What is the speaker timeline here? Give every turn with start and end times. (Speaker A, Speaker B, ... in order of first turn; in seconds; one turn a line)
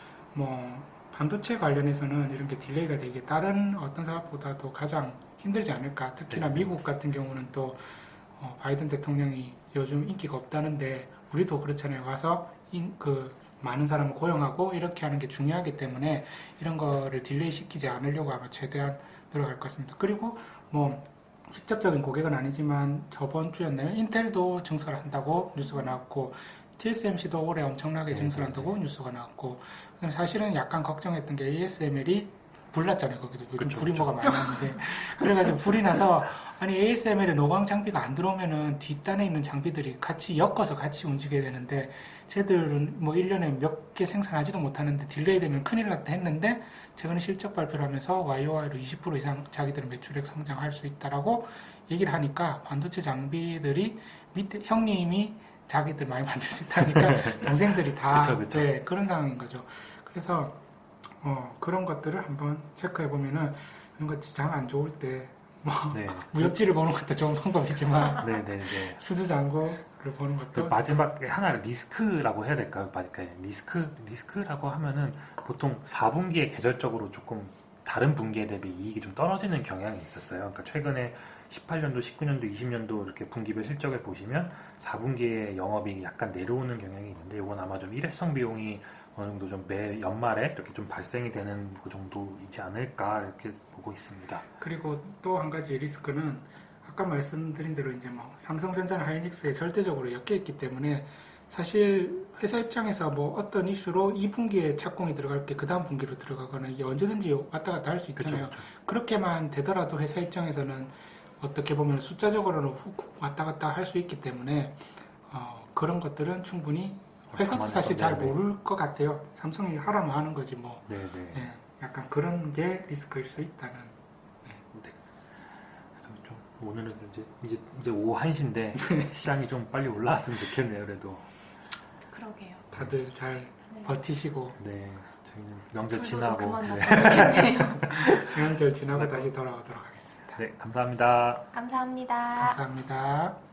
Speaker A: 0.3-71.0
Speaker B: 6.3-6.7
Speaker B: 28.1-28.8
Speaker B: 33.6-34.6
Speaker B: 57.0-57.4
Speaker B: 58.1-58.8
Speaker B: 65.9-66.6
Speaker B: 68.2-69.0
Speaker B: 70.5-94.5
Speaker A: 94.6-124.6
Speaker B: 108.2-108.7
Speaker B: 117.3-118.4
Speaker B: 120.9-121.5
Speaker B: 124.7-125.0
Speaker B: 126.0-131.3
Speaker C: 132.1-132.6
Speaker A: 132.7-134.6
Speaker B: 134.6-139.3
Speaker C: 135.9-137.9
Speaker A: 137.8-140.4
Speaker B: 140.3-141.5
Speaker C: 141.5-142.6
Speaker A: 142.4-143.4